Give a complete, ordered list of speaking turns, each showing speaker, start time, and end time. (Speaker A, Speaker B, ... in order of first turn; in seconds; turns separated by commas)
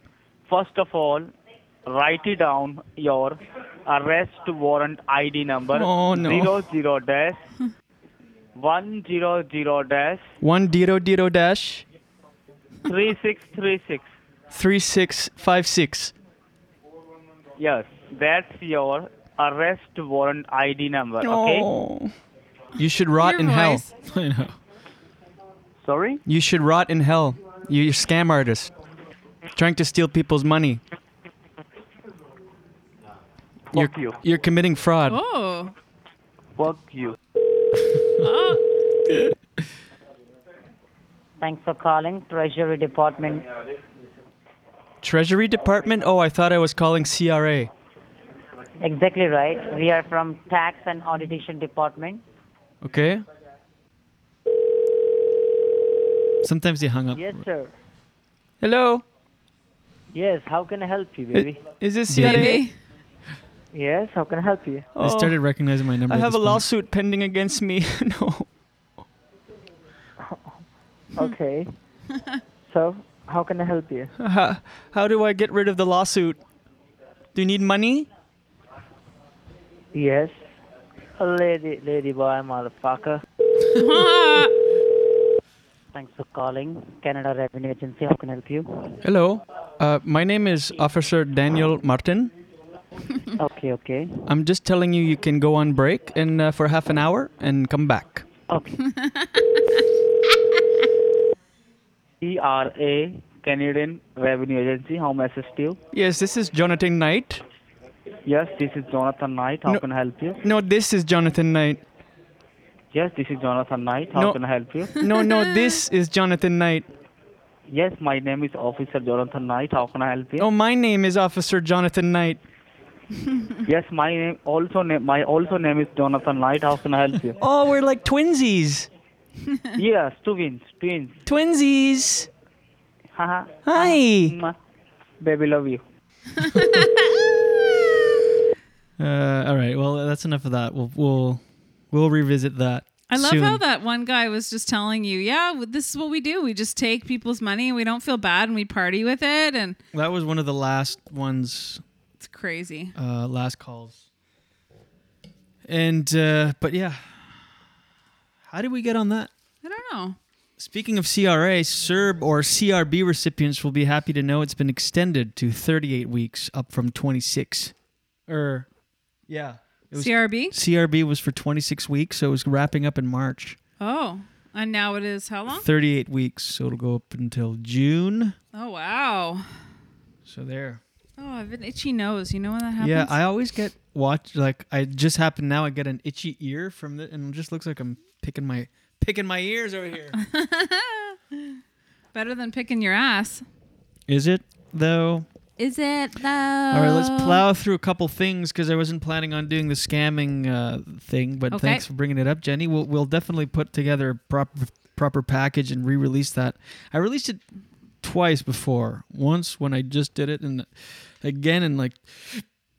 Speaker A: 0.5-1.3, Speaker A: 1.9-7.4, Speaker B: 5.7-6.6, Speaker A: 8.6-10.3, Speaker B: 10.4-11.8, Speaker A: 12.9-14.1, Speaker B: 14.5-16.1, Speaker A: 17.6-21.6, Speaker B: 21.2-22.1, Speaker B: 22.8-23.8, Speaker C: 23.2-23.9, Speaker D: 24.0-24.6, Speaker A: 25.8-26.2, Speaker B: 26.3-28.7, Speaker B: 29.6-30.8, Speaker E: 33.7-34.2, Speaker B: 33.7-35.1, Speaker C: 35.1-35.7, Speaker E: 36.6-37.1, Speaker C: 38.2-38.6, Speaker E: 41.4-43.5, Speaker B: 45.0-47.7, Speaker E: 48.8-52.2, Speaker B: 52.8-53.2, Speaker D: 56.4-57.4, Speaker E: 57.1-57.7, Speaker B: 58.6-59.0, Speaker E: 60.1-61.6, Speaker B: 61.3-62.6, Speaker D: 62.1-62.5, Speaker C: 62.1-62.8, Speaker E: 63.7-64.9, Speaker B: 65.0-65.4, Speaker D: 65.0-66.6, Speaker B: 66.1-68.5, Speaker E: 71.2-71.7, Speaker E: 72.7-74.1, Speaker B: 74.2-76.4, Speaker B: 77.3-78.1, Speaker E: 79.9-80.4, Speaker E: 81.2-83.2, Speaker C: 83.8-84.5, Speaker E: 85.9-89.0, Speaker B: 89.0-92.3, Speaker E: 93.4-94.1, Speaker B: 94.3-98.2, Speaker C: 98.9-99.4, Speaker A: 102.2-105.8, Speaker B: 105.9-107.4, Speaker A: 108.3-110.4, Speaker B: 110.4-111.8, Speaker A: 112.9-115.0, Speaker C: 115.0-115.8, Speaker B: 115.0-116.9, Speaker A: 117.7-120.5, Speaker B: 120.4-122.4, Speaker A: 123.7-127.4, Speaker B: 127.4-128.9, Speaker A: 129.8-131.2, Speaker B: 131.3-132.3, Speaker A: 133.2-134.6, Speaker B: 133.6-134.4, Speaker A: 135.2-135.8, Speaker C: 136.4-136.9, Speaker D: 136.5-136.9, Speaker D: 139.0-143.6, Speaker C: 143.1-149.8, Speaker D: 149.9-151.8, Speaker C: 152.2-152.9, Speaker D: 153.0-154.0, Speaker D: 155.7-157.2, Speaker D: 158.5-159.3, Speaker C: 159.6-160.2, Speaker D: 160.6-167.7, Speaker D: 168.3-168.7, Speaker D: 169.3-173.6, Speaker C: 169.9-170.6, Speaker C: 173.8-175.7, Speaker D: 175.5-178.4, Speaker C: 178.5-179.5, Speaker D: 180.2-180.8, Speaker C: 181.2-183.2, Speaker D: 182.8-190.2, Speaker C: 190.2-191.6, Speaker C: 192.1-193.4, Speaker D: 194.1-195.3, Speaker C: 195.6-197.4, Speaker D: 196.7-207.4, Speaker C: 201.5-201.8, Speaker D: 208.0-210.7, Speaker D: 211.2-212.4